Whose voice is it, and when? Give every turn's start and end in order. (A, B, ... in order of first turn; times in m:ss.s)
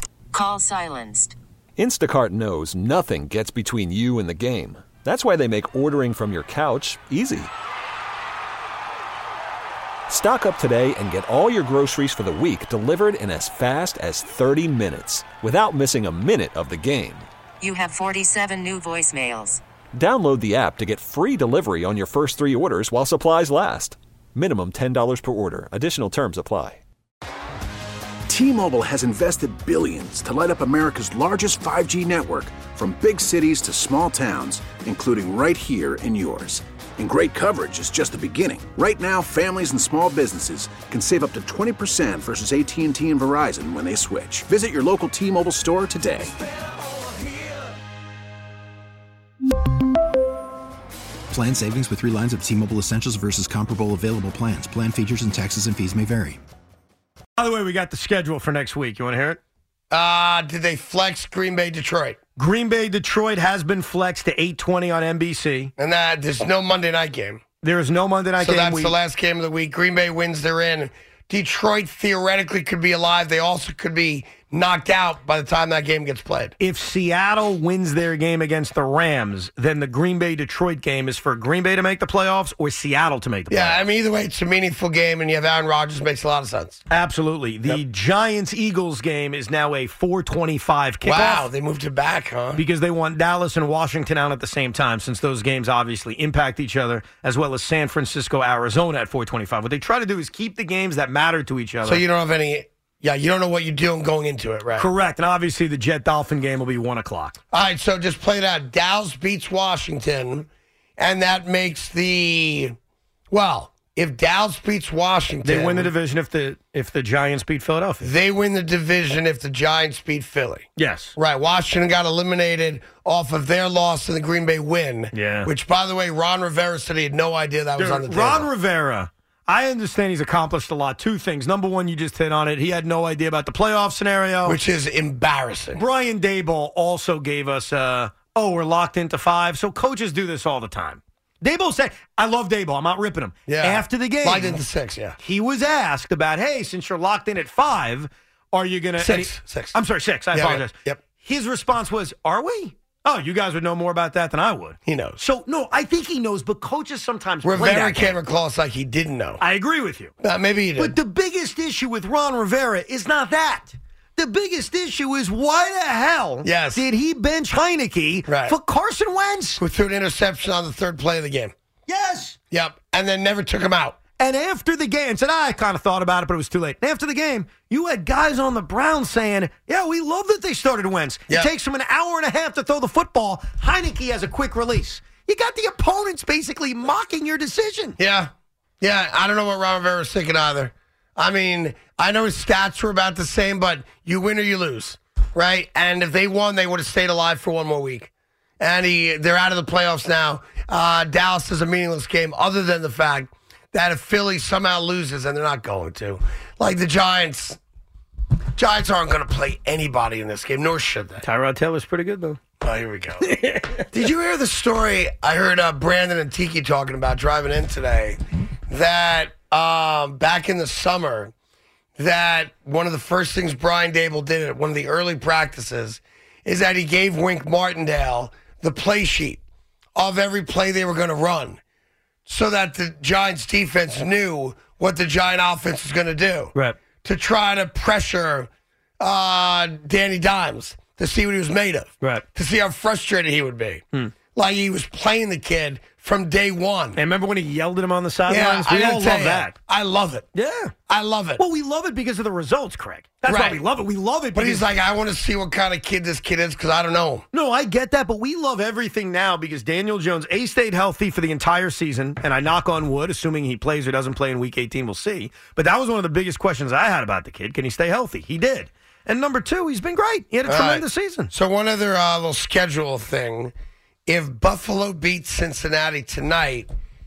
0:00.3-0:01.4 A
0:01.8-0:07.5 B
0:10.1-0:17.3 B
0:17.6-0:19.6 A
0:19.9-0:26.8 B
0:28.3-0:46.3 C
0:51.3-0:56.4 D
0:57.4-0:59.4 E
0:59.9-1:02.2 F
1:02.4-1:05.7 E
1:05.8-1:07.4 F
1:07.6-1:09.0 E
1:08.4-1:16.6 F
1:16.6-1:23.8 E
1:23.5-1:26.8 F
1:26.9-1:31.5 E
1:31.0-1:32.6 F
1:32.6-1:42.0 E
1:41.8-1:44.9 F
1:44.8-1:47.4 E
1:47.5-1:52.8 F
1:53.3-1:55.9 F
1:55.4-1:58.1 E
1:58.0-2:08.5 F
2:00.8-2:01.2 E
2:05.1-2:05.5 E
2:07.8-2:14.6 E
2:14.4-2:15.8 F
2:15.8-2:24.6 E
2:23.5-2:25.2 F
2:25.2-2:38.2 E
2:29.0-2:29.8 F
2:30.3-2:31.0 F
2:34.9-2:35.2 F
2:37.4-2:39.4 F
2:39.4-2:40.1 E
2:40.2-2:41.0 F
2:40.8-2:49.6 E
2:46.4-2:46.8 F
2:48.3-2:48.6 F
2:49.6-2:51.5 F
2:51.9-2:52.4 E
2:52.5-2:54.0 F
2:54.2-3:08.0 E
3:08.0-3:27.6 F
3:28.6-3:31.2 F
3:31.2-3:32.4 E
3:32.6-3:33.4 F
3:33.2-3:33.9 E
3:33.9-3:41.3 F
3:42.0-3:49.4 F
3:50.0-3:51.6 F
3:52.3-4:07.0 F
4:07.0-4:09.5 E
4:08.3-4:10.3 F
4:10.3-4:10.7 E
4:10.9-4:11.4 F
4:11.4-4:14.7 E
4:13.2-4:13.6 F
4:14.4-4:17.2 F
4:17.3-4:31.3 E
4:30.5-4:33.5 F
4:34.1-4:36.7 F